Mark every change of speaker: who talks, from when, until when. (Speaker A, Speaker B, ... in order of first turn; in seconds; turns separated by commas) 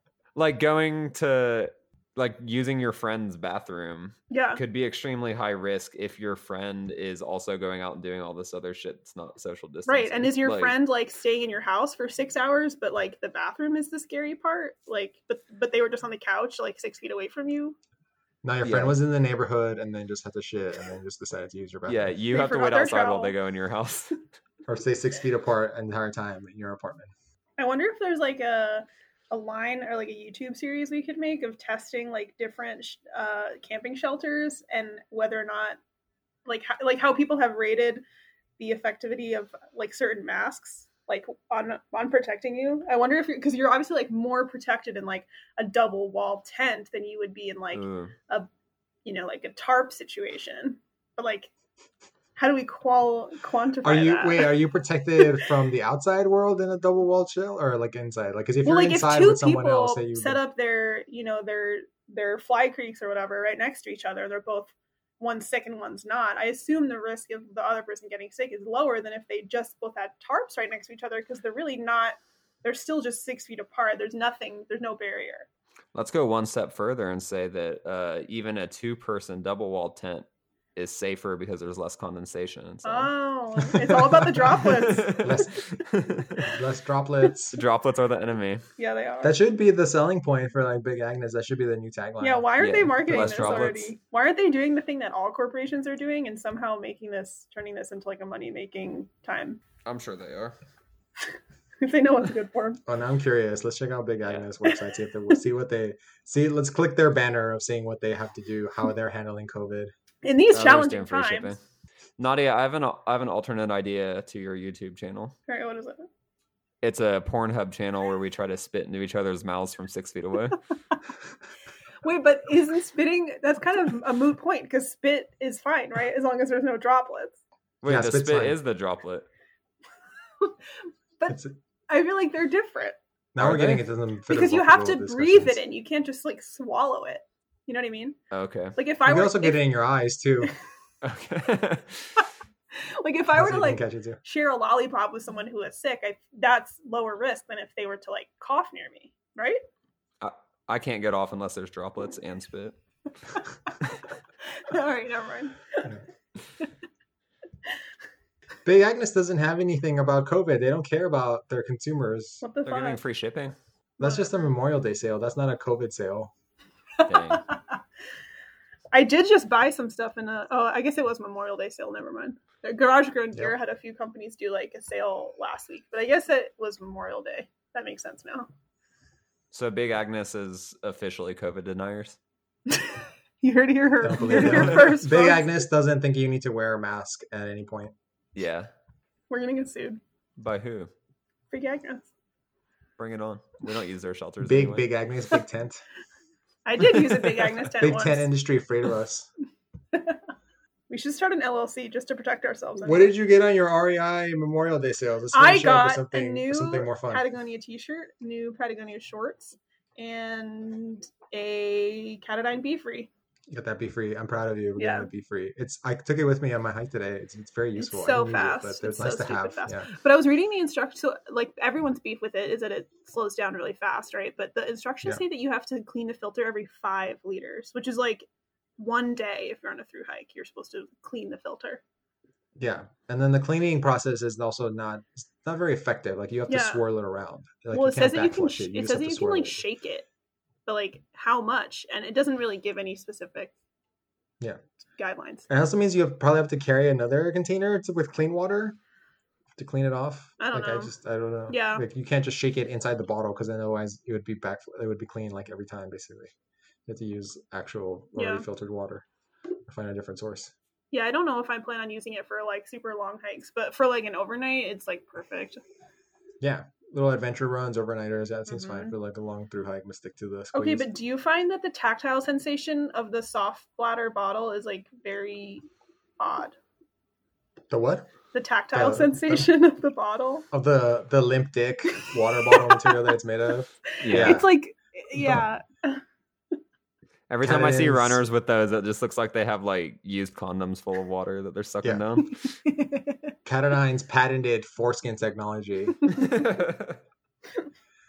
Speaker A: 0.3-10.8, Speaker B: 4.3-4.6, Speaker B: 9.8-17.8, Speaker C: 18.4-22.1, Speaker A: 18.6-18.9, Speaker A: 21.9-24.2, Speaker B: 22.3-23.3, Speaker C: 24.7-27.1, Speaker B: 27.6-35.8, Speaker B: 36.5-38.0, Speaker B: 38.6-48.5, Speaker A: 47.7-48.1, Speaker B: 49.0-51.5, Speaker B: 52.4-54.5, Speaker C: 53.8-60.4, Speaker B: 58.6-75.5, Speaker A: 75.9-83.1, Speaker B: 82.8-85.2, Speaker C: 83.8-84.6, Speaker A: 84.7-86.5, Speaker C: 85.2-85.8, Speaker C: 86.4-87.6, Speaker A: 87.5-88.6, Speaker B: 88.8-89.3, Speaker C: 89.2-93.8, Speaker B: 92.2-99.6, Speaker A: 92.6-93.9, Speaker A: 99.8-100.5, Speaker B: 101.8-102.8, Speaker C: 102.9-109.9, Speaker B: 110.2-111.5, Speaker A: 110.5-111.6, Speaker A: 112.2-115.3, Speaker B: 115.5-116.0, Speaker A: 116.8-120.6, Speaker B: 122.0-127.4, Speaker A: 127.8-129.3, Speaker C: 127.8-128.6, Speaker B: 130.4-131.3, Speaker C: 131.3-131.5, Speaker B: 131.9-133.0, Speaker C: 133.3-135.6, Speaker A: 133.4-133.8, Speaker B: 134.3-138.2, Speaker A: 138.3-138.8, Speaker B: 138.8-139.6, Speaker C: 139.1-140.5, Speaker A: 141.0-142.2, Speaker B: 142.8-149.6, Speaker C: 143.3-144.2, Speaker A: 150.2-152.7, Speaker B: 154.6-155.9, Speaker C: 158.6-162.4, Speaker B: 162.4-163.0, Speaker A: 162.6-163.5, Speaker C: 164.0-166.3, Speaker B: 164.0-164.4, Speaker B: 167.0-167.8, Speaker A: 167.1-167.4, Speaker B: 168.9-178.5, Speaker A: 179.5-182.2, Speaker B: 182.7-185.5, Speaker C: 184.0-187.9, Speaker A: 184.3-184.8, Speaker A: 188.3-188.7, Speaker B: 189.3-190.0, Speaker A: 190.4-190.9, Speaker B: 191.5-192.1, Speaker A: 193.0-194.9, Speaker C: 194.4-195.8, Speaker B: 196.7-198.3, Speaker C: 197.8-199.3, Speaker B: 199.9-200.2, Speaker B: 200.9-203.1, Speaker C: 202.8-207.2, Speaker B: 205.3-213.1, Speaker C: 213.5-219.9, Speaker B: 214.8-215.1, Speaker B: 217.8-228.3, Speaker B: 228.8-231.8, Speaker C: 232.6-239.6, Speaker B: 236.5-236.8, Speaker B: 237.7-240.1, Speaker B: 240.7-243.5, Speaker B: 245.0-245.4, Speaker C: 245.5-248.8, Speaker C: 249.6-256.3, Speaker B: 250.4-250.9, Speaker B: 251.5-251.8, Speaker C: 256.9-259.0, Speaker B: 258.1-258.5, Speaker C: 259.7-260.5, Speaker B: 260.9-265.6, Speaker C: 266.4-270.9, Speaker B: 268.5-268.9, Speaker B: 270.5-275.6, Speaker B: 276.2-276.5, Speaker C: 277.7-278.1, Speaker B: 278.3-280.4, Speaker C: 278.7-279.5, Speaker C: 280.5-284.5, Speaker B: 282.0-283.1, Speaker A: 284.0-284.4, Speaker B: 284.1-286.0, Speaker C: 285.1-285.5, Speaker A: 287.3-292.4, Speaker C: 287.4-288.2, Speaker B: 292.4-293.3, Speaker C: 293.4-296.0, Speaker A: 296.2-297.0